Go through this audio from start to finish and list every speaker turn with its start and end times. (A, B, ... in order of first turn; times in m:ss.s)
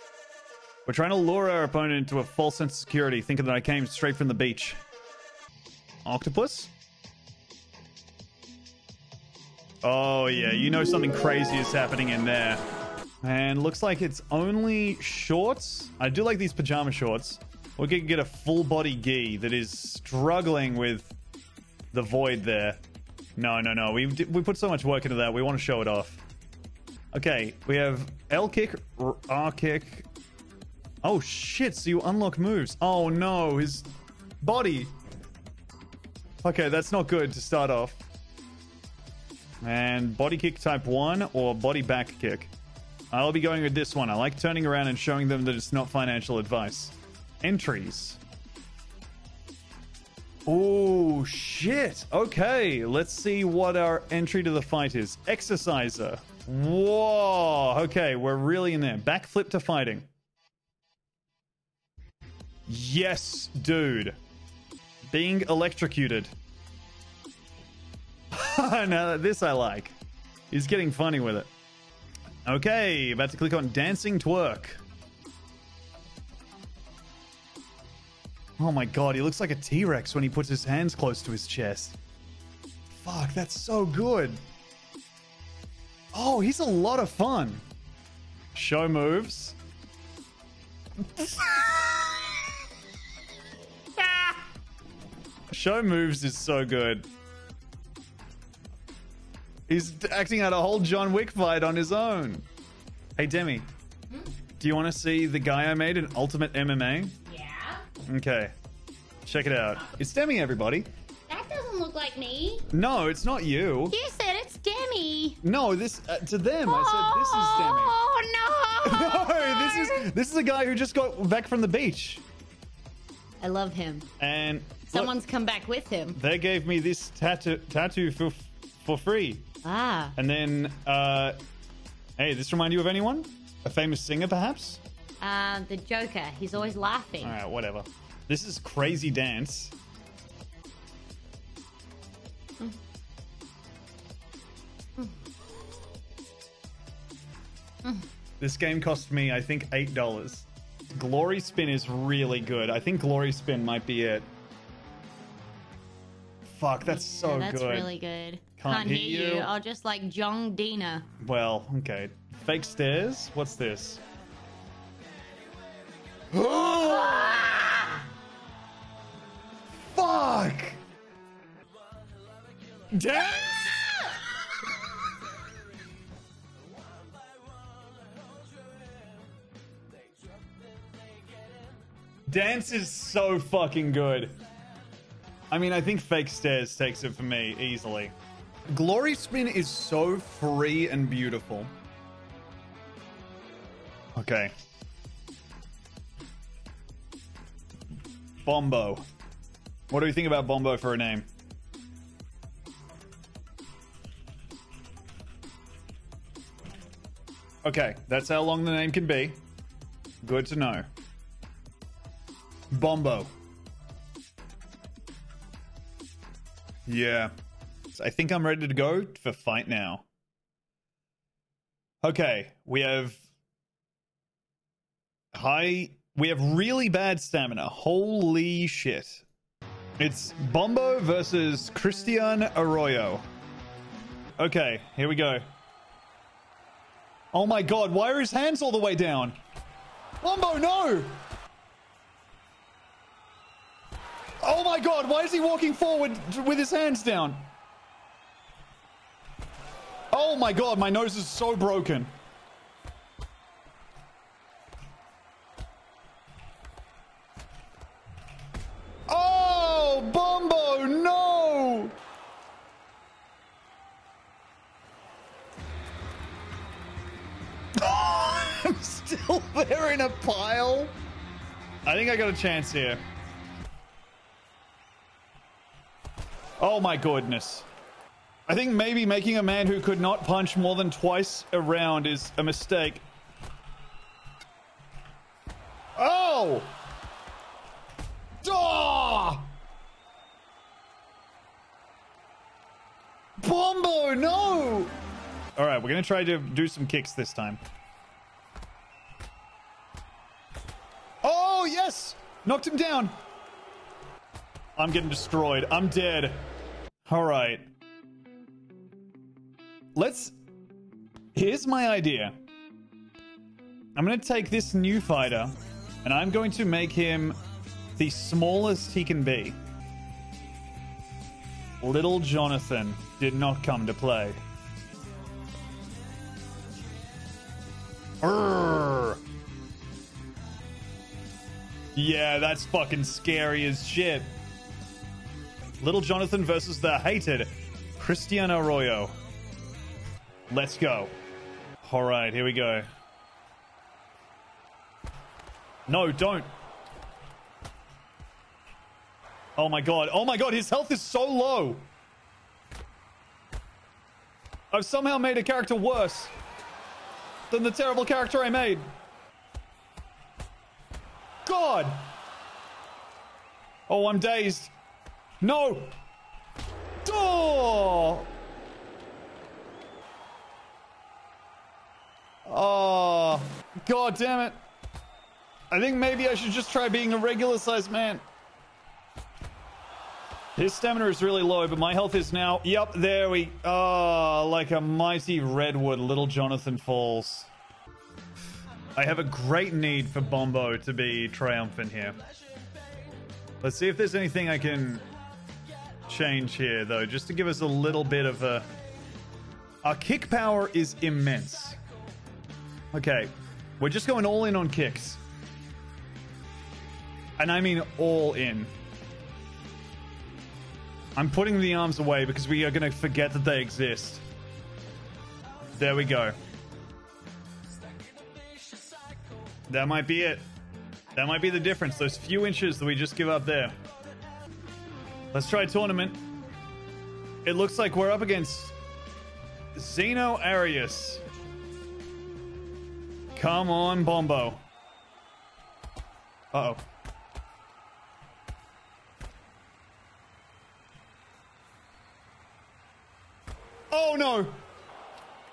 0:00.8-0:04.8 A
0:06.0-0:06.7 A
0:09.8-0:12.6 A
0:13.2-0:21.1 A
0:21.9-0:22.8 A
0:23.4-0:26.2 A
0:27.1-0:30.1 A
0:31.0-0:33.9 A
0:34.4-0:34.9 A
0:36.4-0:38.0 A
0:39.6-0:42.5 A
0:43.1-0:48.2 A
0:50.4-1:00.1 A
1:02.7-1:04.2 A
1:05.0-1:06.3 A
1:08.3-1:10.0 A
1:10.5-1:11.5 A
1:12.4-1:14.8 A
1:18.6-1:22.0 A
1:22.9-1:24.4 A
1:26.1-1:27.6 A
1:28.5-1:29.6 A
1:31.1-1:31.9 A
1:35.5-1:37.1 A
1:39.7-1:42.4 A
1:43.2-1:43.7 A
1:44.6-1:47.2 A
1:47.2-1:47.8 B
1:48.0-1:48.5 A
1:49.2-1:50.9 A
1:51.3-1:52.7 B
1:52.7-1:54.0 A
1:53.9-1:55.4 B
1:55.4-1:58.0 A
1:56.6-2:00.1 B
1:58.8-2:02.2 A
2:03.4-2:04.1 B
2:04.2-2:05.1 A
2:04.9-2:06.2 B
2:06.1-2:09.5 A
2:09.6-2:10.2 B
2:10.2-2:11.4 A
2:12.2-2:14.8 A
2:15.2-2:17.4 B
2:17.2-2:19.7 A
2:28.4-2:34.3 A
2:36.4-2:37.9 A
2:36.8-2:41.1 B
2:38.6-2:39.5 A
2:41.2-2:44.0 A
2:46.3-2:48.0 A
2:47.2-2:47.4 B
2:49.8-2:50.8 A
2:52.9-2:54.2 A
3:02.3-3:04.4 A
3:05.5-3:08.1 A
3:08.7-3:11.7 A
3:14.2-3:14.5 A
3:18.4-3:19.0 A
3:19.9-3:21.3 A
3:27.6-3:29.4 A
3:30.2-3:30.8 A
3:32.7-3:33.3 A
3:36.9-3:37.3 A
3:37.9-3:40.0 A
3:42.0-3:43.2 A
3:45.3-3:49.2 A
3:50.0-3:53.2 A
3:54.4-3:55.5 A
3:57.3-3:59.3 A
4:00.2-4:01.2 A
4:04.4-4:07.4 A
4:10.1-4:12.1 A
4:19.1-4:22.0 A
4:27.8-4:30.9 A
4:31.8-4:33.0 A
4:36.6-4:37.7 A
4:38.5-4:43.0 A
4:46.0-4:46.8 A
4:48.4-4:49.5 A
4:53.4-4:54.9 A
4:55.6-4:57.6 A
5:01.2-5:03.2 A
5:04.8-5:06.5 A
5:07.0-5:07.6 A
5:09.9-5:10.3 A
5:11.3-5:12.4 A
5:14.0-5:17.4 A
5:18.0-5:19.6 A
5:21.8-5:24.4 A
5:28.2-5:29.2 A
5:31.9-5:34.3 A
5:35.8-5:39.1 A
5:40.5-5:41.1 A
5:41.8-5:42.9 A
5:45.9-5:46.5 A
5:49.6-5:51.9 A
5:54.7-5:56.3 A
5:57.5-5:58.9 A
6:01.4-6:02.0 A
6:03.9-6:04.7 A
6:05.4-6:05.9 A
6:07.0-6:08.3 A
6:12.4-6:14.6 A
6:15.7-6:18.2 A
6:20.6-6:27.5 A
6:29.0-6:32.2 A
6:33.6-6:35.0 A
6:36.1-6:38.7 A
6:39.8-6:41.8 A
6:42.9-6:45.2 A
6:47.4-6:48.7 A
6:51.2-6:54.2 A
6:55.8-6:56.4 A
6:59.7-7:00.4 A
7:01.1-7:03.7 A
7:05.3-7:06.2 A
7:07.4-7:08.7 A
7:09.7-7:11.2 A
7:13.4-7:14.6 A
7:16.5-7:16.8 A
7:23.9-7:24.6 A